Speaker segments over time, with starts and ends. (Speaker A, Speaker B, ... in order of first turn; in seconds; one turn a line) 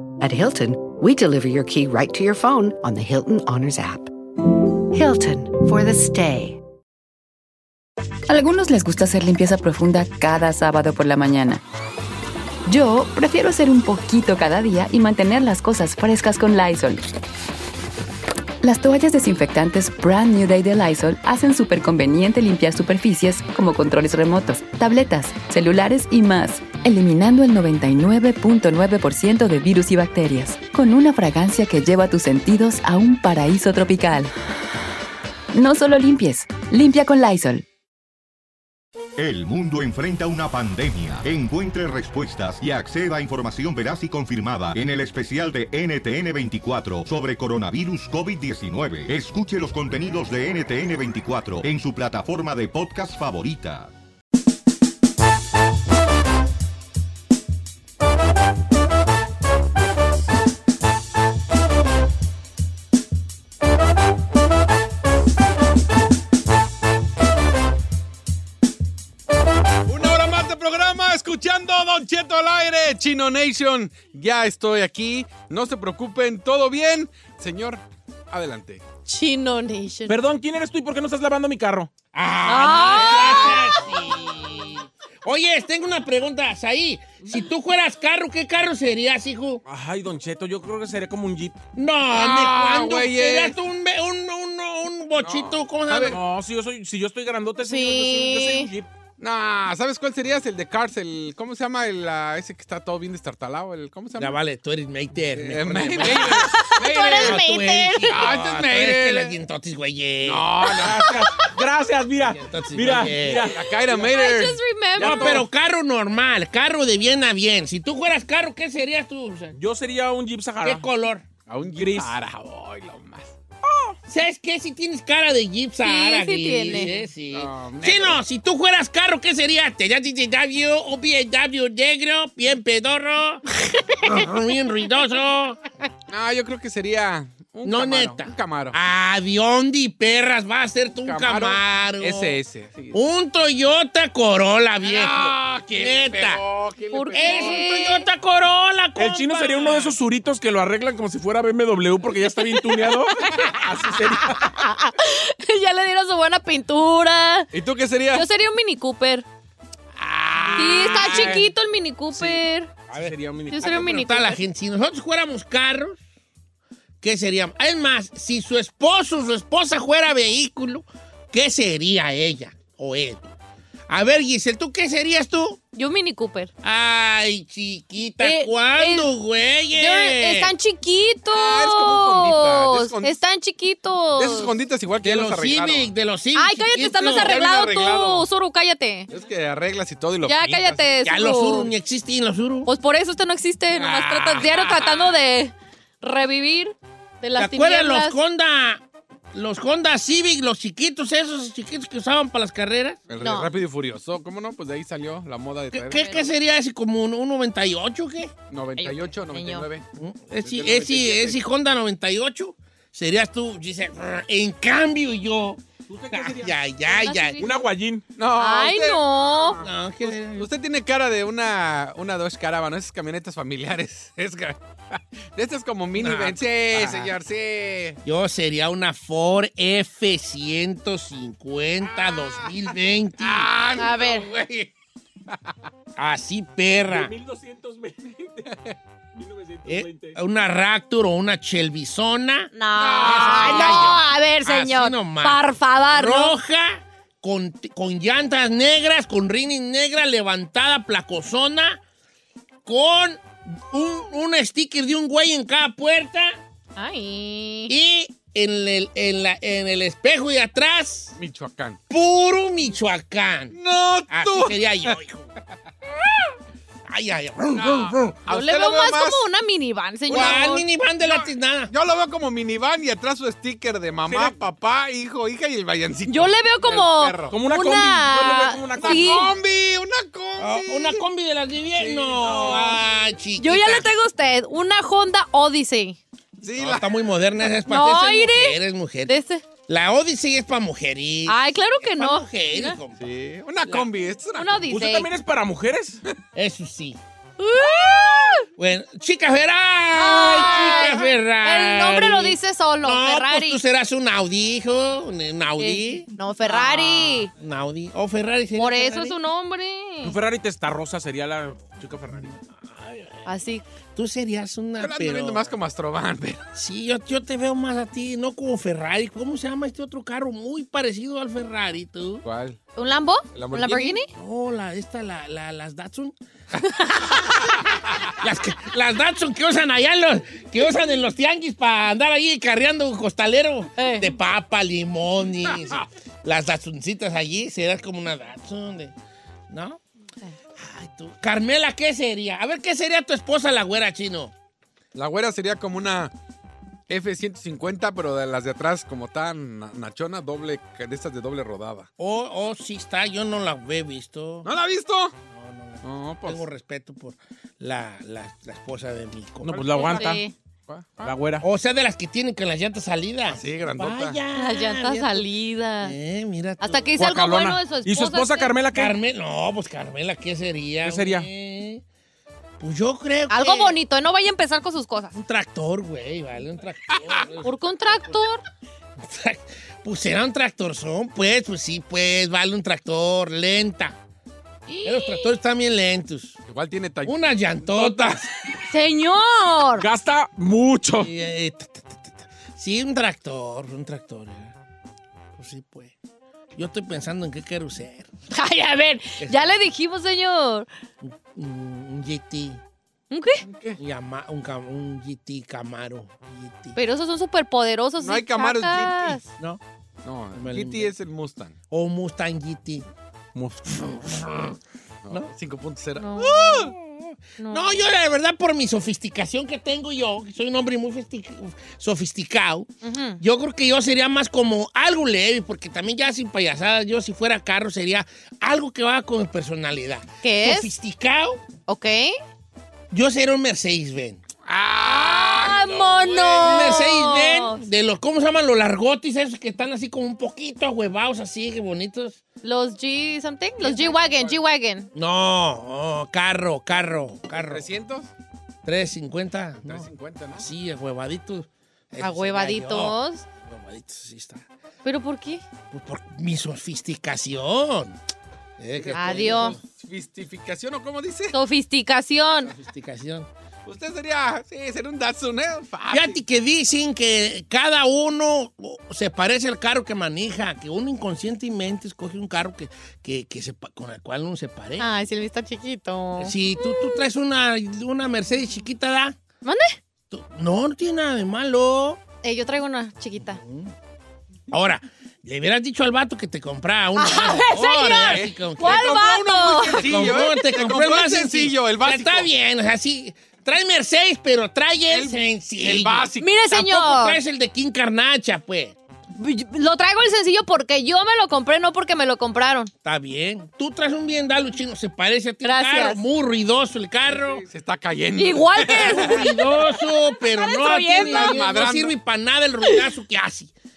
Speaker A: 0.2-4.1
Speaker B: 0.5-1.1
Speaker B: 1.7-3.8
Speaker A: 4.9-6.6
Speaker B: 5.0-6.4
Speaker B: 8.3-11.6
Speaker B: 12.7-17.1
Speaker B: 18.6-34.3
Speaker B: 35.5-37.6
Speaker C: 39.2-53.9
Speaker D: 69.8-78.8
Speaker E: 79.1-80.1
Speaker F: 80.1-81.9
Speaker G: 82.1-89.6
Speaker E: 82.4-83.8
Speaker D: 82.9-83.7
Speaker F: 89.7-91.6
Speaker G: 91.8-96.2
Speaker D: 92.1-93.5
Speaker D: 95.2-96.2
Speaker F: 96.1-98.9
Speaker E: 97.6-98.7
Speaker D: 99.2-104.4
Speaker G: 104.2-110.5
Speaker D: 105.4-107.4
Speaker E: 106.0-108.3
Speaker D: 108.0-109.4
Speaker D: 110.2-111.3
Speaker F: 111.0-113.6
Speaker G: 112.2-113.5
Speaker D: 113.2-115.4
Speaker E: 113.9-115.4
Speaker G: 115.0-119.5
Speaker F: 115.0-115.4
Speaker F: 119.5-120.9
Speaker G: 120.6-121.2
Speaker D: 121.5-123.3
Speaker F: 121.6-122.1
Speaker G: 124.1-133.4
Speaker E: 125.8-126.9
Speaker D: 126.8-128.2
Speaker G: 134.0-135.6
Speaker D: 136.1-138.8
Speaker G: 137.6-142.4
Speaker D: 141.0-143.0
Speaker G: 142.9-146.4
Speaker D: 144.8-147.8
Speaker E: 146.9-148.1
Speaker G: 147.1-149.9
Speaker F: 148.9-153.1
Speaker E: 152.9-153.5
Speaker D: 153.6-154.2
Speaker F: 153.7-154.3
Speaker E: 154.3-157.5
Speaker D: 157.5-158.2
Speaker E: 158.1-159.2
Speaker D: 160.0-161.4
Speaker E: 160.6-162.7
Speaker F: 161.0-161.4
Speaker F: 162.9-163.8
Speaker G: 162.9-166.0
Speaker E: 163.5-164.4
Speaker G: 167.0-173.3
Speaker G: 173.9-175.6
Speaker E: 175.7-176.5
Speaker G: 176.6-180.5
Speaker E: 178.2-179.1
Speaker E: 179.7-184.5
Speaker D: 181.3-183.2
Speaker D: 184.2-185.9
Speaker G: 185.0-187.3
Speaker E: 186.3-189.1
Speaker D: 187.0-188.2
Speaker D: 189.1-190.9
Speaker E: 190.2-191.7
Speaker G: 191.0-192.7
Speaker E: 192.6-198.2
Speaker G: 193.8-194.4
Speaker G: 197.4-198.8
Speaker G: 199.3-203.0
Speaker D: 203.1-206.3
Speaker E: 203.2-203.5
Speaker G: 205.7-208.3
Speaker D: 208.5-209.8
Speaker E: 208.8-209.7
Speaker G: 210.0-215.6
Speaker D: 210.4-211.4
Speaker F: 215.9-216.6
Speaker G: 216.1-217.4
Speaker E: 216.8-217.5
Speaker F: 217.4-218.0
Speaker D: 218.2-228.0
Speaker E: 218.3-219.6
Speaker G: 219.6-220.5
Speaker G: 226.0-227.1
Speaker G: 228.0-233.5
Speaker D: 231.8-232.5
Speaker D: 233.2-234.7
Speaker E: 233.8-234.3
Speaker G: 236.0-237.1
Speaker F: 236.8-238.4
Speaker F: 239.2-240.2
Speaker G: 239.7-251.8
Speaker E: 242.5-246.3
Speaker D: 242.7-244.0
Speaker G: 252.7-256.4
Speaker E: 256.8-257.7
Speaker G: 257.7-261.1
Speaker D: 261.2-261.8
Speaker G: 261.9-263.6
Speaker D: 263.5-264.9
Speaker G: 264.1-265.3
Speaker G: 266.9-268.2
Speaker D: 267.5-269.2
Speaker E: 268.3-270.6
Speaker G: 270.1-271.7
Speaker D: 270.1-270.4
Speaker D: 271.0-277.4
Speaker G: 274.1-274.3
Speaker E: 276.1-279.3
Speaker F: 277.3-279.1
Speaker D: 278.7-281.0
Speaker G: 280.4-283.9
Speaker D: 281.7-282.8
Speaker E: 283.4-286.0
Speaker D: 286.4-286.9
Speaker G: 286.5-289.1
Speaker E: 287.6-289.4
Speaker G: 289.7-293.0
Speaker E: 291.3-292.8
Speaker D: 293.0-294.6
Speaker E: 294.3-295.1
Speaker F: 294.7-296.0
Speaker G: 296.3-297.0
Speaker E: 297.4-298.4
Speaker G: 298.6-309.1
Speaker E: 299.9-303.6
Speaker E: 305.6-307.3
Speaker E: 308.5-310.1
Speaker F: 310.0-312.3
Speaker G: 311.8-313.2
Speaker E: 313.2-313.6
Speaker G: 313.9-315.5
Speaker D: 314.8-316.4
Speaker G: 316.5-322.2
Speaker D: 322.2-322.6
Speaker E: 322.8-324.1
Speaker D: 323.3-324.0
Speaker G: 324.1-326.1
Speaker G: 328.2-338.9
Speaker E: 333.8-334.1
Speaker G: 339.5-339.8
Speaker G: 340.6-344.3
Speaker D: 344.9-346.1
Speaker D: 346.9-351.9
Speaker G: 352.0-354.5
Speaker D: 354.4-355.1
Speaker G: 355.3-360.0
Speaker D: 355.8-356.4
Speaker F: 359.4-360.2
Speaker E: 359.7-360.3
Speaker D: 360.7-361.2
Speaker F: 361.0-361.4
Speaker G: 361.4-365.3
Speaker D: 363.3-364.2
Speaker E: 364.3-365.9
Speaker G: 365.8-366.9
Speaker E: 366.6-368.6
Speaker F: 366.9-368.9
Speaker G: 368.7-371.8
Speaker F: 370.8-371.3
Speaker G: 372.6-373.8
Speaker E: 373.3-375.2
Speaker G: 375.1-377.5
Speaker E: 377.4-378.4
Speaker G: 379.0-384.0
Speaker E: 384.7-385.3
Speaker G: 384.8-386.3
Speaker D: 386.5-388.3
Speaker G: 387.0-388.3
Speaker E: 388.7-389.9
Speaker F: 389.8-391.1
Speaker G: 391.0-394.5
Speaker G: 395.4-395.9
Speaker G: 396.6-398.1
Speaker E: 398.3-400.7
Speaker G: 399.2-399.5
Speaker G: 401.0-402.6
Speaker E: 403.1-403.4
Speaker D: 403.4-403.8
Speaker G: 403.8-406.8
Speaker E: 406.7-409.2
Speaker D: 408.0-409.2
Speaker D: 410.0-411.5
Speaker G: 410.3-410.9
Speaker G: 411.7-412.8
Speaker G: 413.7-414.6
Speaker D: 415.0-416.7
Speaker E: 416.0-416.7
Speaker G: 416.6-422.7
Speaker E: 417.4-417.9
Speaker E: 422.8-423.2
Speaker G: 423.2-431.4
Speaker E: 430.2-430.7
Speaker E: 431.7-432.1
Speaker G: 432.9-434.2
Speaker D: 434.4-436.8
Speaker E: 434.8-437.6
Speaker G: 436.4-442.2
Speaker E: 442.4-444.9
Speaker D: 443.6-444.4
Speaker G: 444.9-447.6
Speaker D: 447.3-448.1
Speaker G: 448.6-454.4
Speaker D: 449.6-450.4
Speaker E: 452.0-453.2
Speaker E: 454.8-455.4
Speaker G: 455.7-457.9
Speaker G: 458.6-459.6
Speaker D: 458.8-461.4
Speaker E: 458.9-459.6
Speaker E: 461.3-462.5
Speaker G: 462.4-463.3
Speaker D: 463.6-466.2
Speaker G: 465.9-474.9
Speaker E: 474.8-477.0
Speaker G: 476.2-479.1
Speaker E: 479.4-479.8
Speaker G: 480.1-482.0
Speaker E: 482.2-483.4
Speaker G: 483.2-483.7
Speaker G: 484.5-489.0
Speaker E: 487.0-489.9
Speaker D: 488.1-492.3
Speaker G: 489.5-498.7
Speaker D: 494.9-496.3
Speaker E: 496.2-497.2
Speaker E: 499.2-502.7
Speaker G: 502.8-507.4
Speaker E: 505.4-506.0
Speaker D: 507.1-509.2
Speaker E: 508.1-511.4
Speaker G: 508.6-513.5
Speaker D: 510.9-511.9